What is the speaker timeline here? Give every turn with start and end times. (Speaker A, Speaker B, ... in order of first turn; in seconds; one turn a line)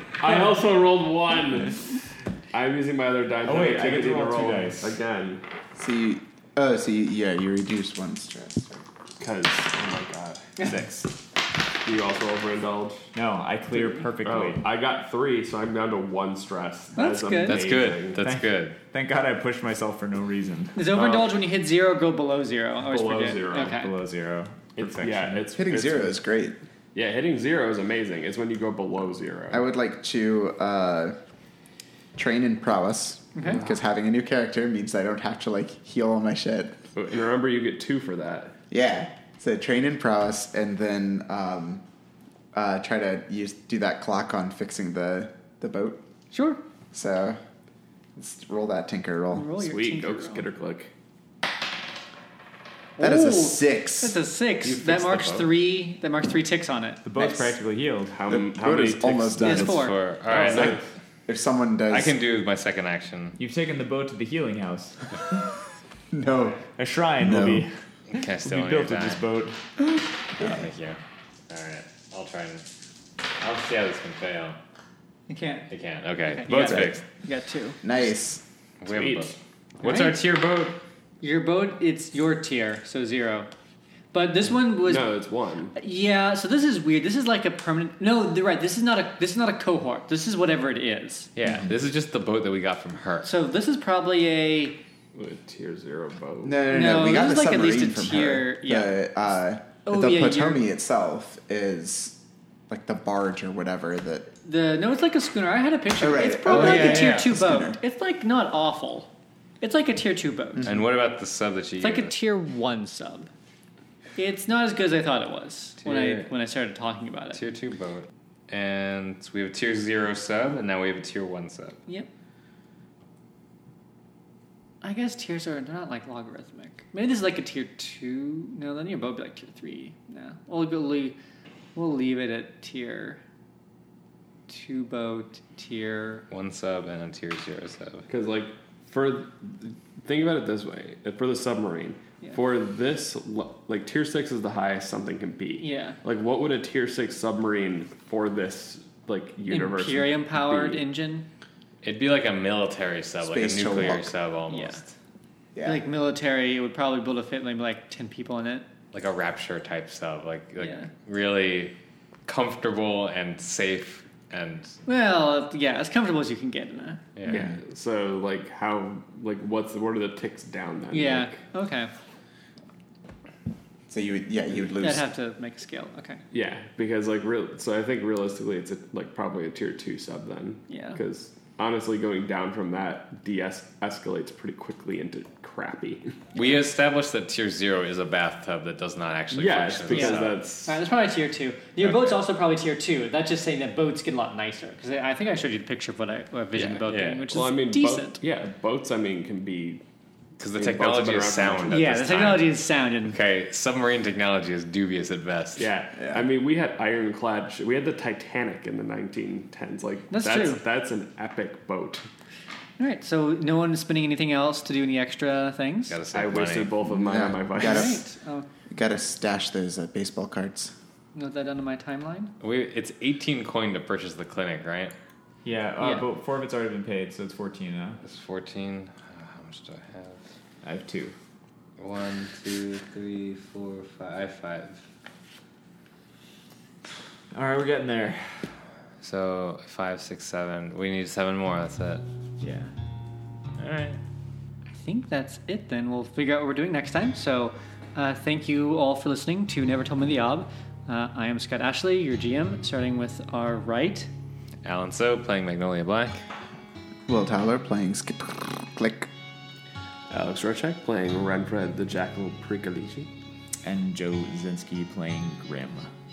Speaker A: 0.2-2.0
Speaker A: 2.5-5.4
Speaker B: 3.4-4.9
Speaker C: 5.8-8.8
Speaker A: 9.2-10.6
Speaker B: 10.6-11.1
Speaker A: 11.8-13.1
Speaker B: 13.1-14.6
Speaker A: 14.2-18.2
Speaker D: 16.9-17.6
Speaker E: 17.4-18.7
Speaker B: 18.2-20.9
Speaker D: 20.7-23.9
Speaker A: 20.9-21.3
Speaker A: 22.8-23.8
Speaker B: 23.5-25.4
Speaker A: 24.8-26.2
Speaker C: 25.5-26.6
Speaker A: 26.9-29.6
Speaker C: 29.5-31.1
Speaker C: 32.1-36.8
Speaker D: 33.3-33.6
Speaker A: 36.9-38.5
Speaker C: 38.7-41.8
Speaker C: 42.5-46.0
Speaker D: 46.3-46.6
Speaker C: 46.9-47.4
Speaker C: 48.2-49.5
Speaker D: 49.3-50.4
Speaker A: 49.5-50.9
Speaker D: 53.0-57.5
Speaker C: 53.0-54.2
Speaker E: 54.6-55.5
Speaker B: 57.0-58.2
Speaker A: 58.1-60.8
Speaker C: 58.3-59.9
Speaker D: 59.4-60.0
Speaker E: 59.7-60.8
Speaker C: 60.5-62.1
Speaker E: 61.9-63.4
Speaker B: 63.4-65.2
Speaker C: 66.1-66.6
Speaker B: 66.8-69.6
Speaker C: 67.2-67.7
Speaker E: 68.1-69.2
Speaker E: 70.4-72.7
Speaker E: 73.4-74.6
Speaker D: 75.3-75.7
Speaker E: 75.7-77.0
Speaker D: 76.2-77.8
Speaker C: 76.6-76.9
Speaker C: 77.8-78.4
Speaker E: 78.8-80.8
Speaker A: 78.8-79.4
Speaker D: 79.8-80.2
Speaker D: 81.2-83.5
Speaker D: 84.1-85.2
Speaker A: 84.8-85.8
Speaker D: 85.7-91.3
Speaker E: 91.3-93.3
Speaker D: 93.2-94.8
Speaker A: 95.1-96.7
Speaker C: 96.4-104.3
Speaker D: 96.7-99.0
Speaker D: 99.8-100.6
Speaker D: 104.4-109.1
Speaker C: 106.0-107.8
Speaker E: 106.5-107.3
Speaker D: 109.6-110.7
Speaker C: 110.5-110.8
Speaker E: 110.6-112.1
Speaker D: 111.8-113.3
Speaker D: 114.2-117.4
Speaker E: 115.8-116.3
Speaker E: 117.3-121.8
Speaker D: 124.8-131.2
Speaker D: 131.7-133.2
Speaker D: 134.5-136.2
Speaker E: 136.3-138.1
Speaker A: 138.1-150.9
Speaker D: 145.6-146.0
Speaker D: 149.5-151.2
Speaker E: 151.8-154.9
Speaker C: 153.2-154.1
Speaker D: 154.5-154.8
Speaker C: 155.5-155.8
Speaker D: 155.6-158.7
Speaker E: 158.9-161.7
Speaker D: 160.6-160.9
Speaker E: 162.3-164.8
Speaker D: 164.9-167.0
Speaker E: 167.2-167.5
Speaker A: 167.3-171.4
Speaker D: 170.9-171.9
Speaker C: 173.9-175.0
Speaker D: 174.8-176.2
Speaker A: 176.3-186.2
Speaker D: 180.7-181.0
Speaker E: 186.3-190.4
Speaker A: 189.3-190.8
Speaker D: 189.9-198.2
Speaker E: 191.8-192.2
Speaker E: 196.5-197.2
Speaker A: 197.3-199.8
Speaker E: 200.4-205.7
Speaker A: 200.5-201.9
Speaker D: 201.7-203.2
Speaker A: 205.6-212.1
Speaker C: 206.0-206.3
Speaker D: 210.1-210.6
Speaker D: 212.8-216.0
Speaker E: 215.9-216.7
Speaker A: 216.1-218.0
Speaker C: 216.9-218.0
Speaker D: 217.6-218.5
Speaker C: 218.7-220.7
Speaker D: 221.1-222.3
Speaker E: 222.4-224.9
Speaker B: 225.4-228.0
Speaker D: 225.8-226.0
Speaker E: 228.0-230.2
Speaker B: 230.6-231.1
Speaker E: 231.8-234.8
Speaker B: 237.3-238.5
Speaker E: 239.0-242.0
Speaker B: 242.4-242.7
Speaker E: 243.6-244.0
Speaker D: 244.7-254.1
Speaker E: 254.6-256.2
Speaker C: 257.1-259.1
Speaker A: 260.1-263.1
Speaker B: 263.6-265.9